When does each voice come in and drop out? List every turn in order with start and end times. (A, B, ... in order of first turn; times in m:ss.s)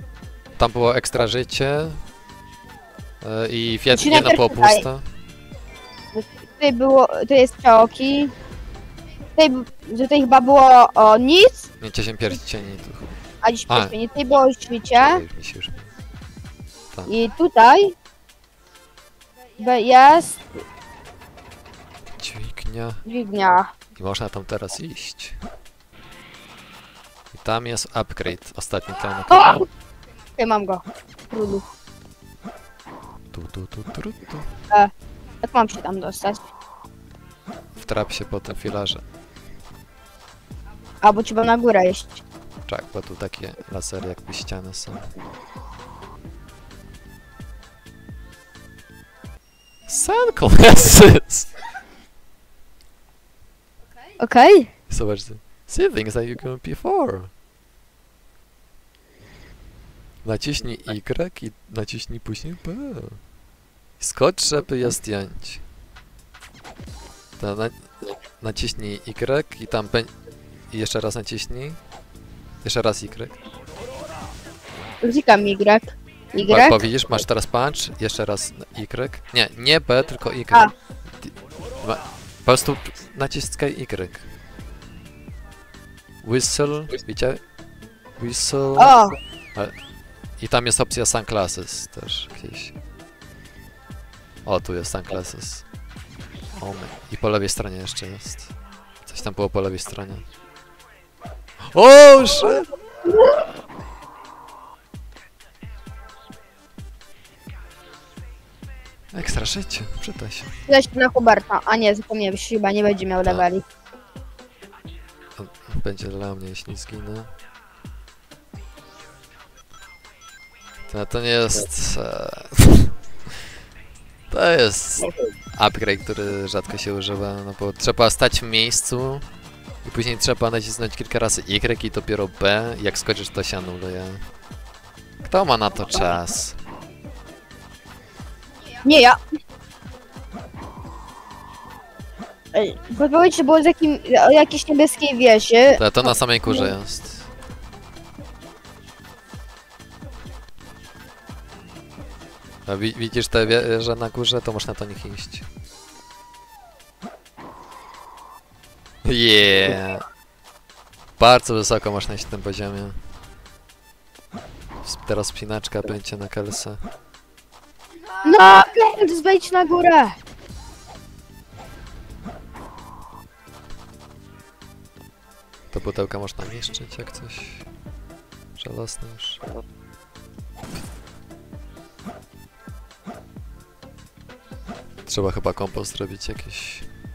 0:00.6-0:02.0 A
0:03.2-0:05.0 A
0:03.9-0:04.8 B
0:06.1-0:08.3 B
0:09.4-0:11.7 B
0:11.8-0:13.9 A
0:13.4-0:15.2 B
0:14.9-0:15.9 A
0:17.1-0:17.9 B
0:19.6-0:20.5 B
0:22.2-0:23.0 A
0:23.0-0:23.7 B
0:24.0-0:25.4 A
0:27.3-0:29.6 A
0:29.3-0:29.6 B
0:30.4-0:31.6 B
0:33.3-0:34.5 A
0:35.4-0:36.5 B
0:37.8-0:39.0 A
0:41.0-0:42.2 B
0:42.7-0:45.0 A
0:49.9-0:51.6 A
0:54.2-0:54.7 B
0:54.9-0:57.3 A
1:00.2-1:03.2 A
1:04.0-1:05.6 A
1:07.4-1:07.9 A
1:08.4-1:10.1 A
1:10.7-1:11.8 A
1:12.6-1:13.4 A
1:15.0-1:16.8 B
1:16.4-1:24.2 A
1:26.2-1:27.4 A
1:28.2-1:29.0 A
1:28.8-1:29.1 B
1:30.4-1:32.7 A
1:34.4-1:35.6 A
1:36.6-1:38.5 A
1:39.0-1:40.2 A
1:41.7-1:42.7 A
1:43.2-1:43.4 B
1:49.1-1:50.5 A
1:50.7-1:53.6 B
1:55.4-1:57.3 A
2:00.9-2:02.9 A
2:04.3-2:09.3 A
2:09.8-2:14.2 A
2:15.2-2:16.6 A
2:18.8-2:19.2 B
2:22.5-2:26.7 B
2:25.7-2:27.3 A
2:32.6-2:35.4 A
2:39.0-2:40.0 A
2:41.2-2:43.0 A
2:44.8-2:46.8 A
2:48.2-2:50.2 B
2:55.7-2:57.6 A
2:58.6-2:59.4 A
3:05.1-3:06.9 A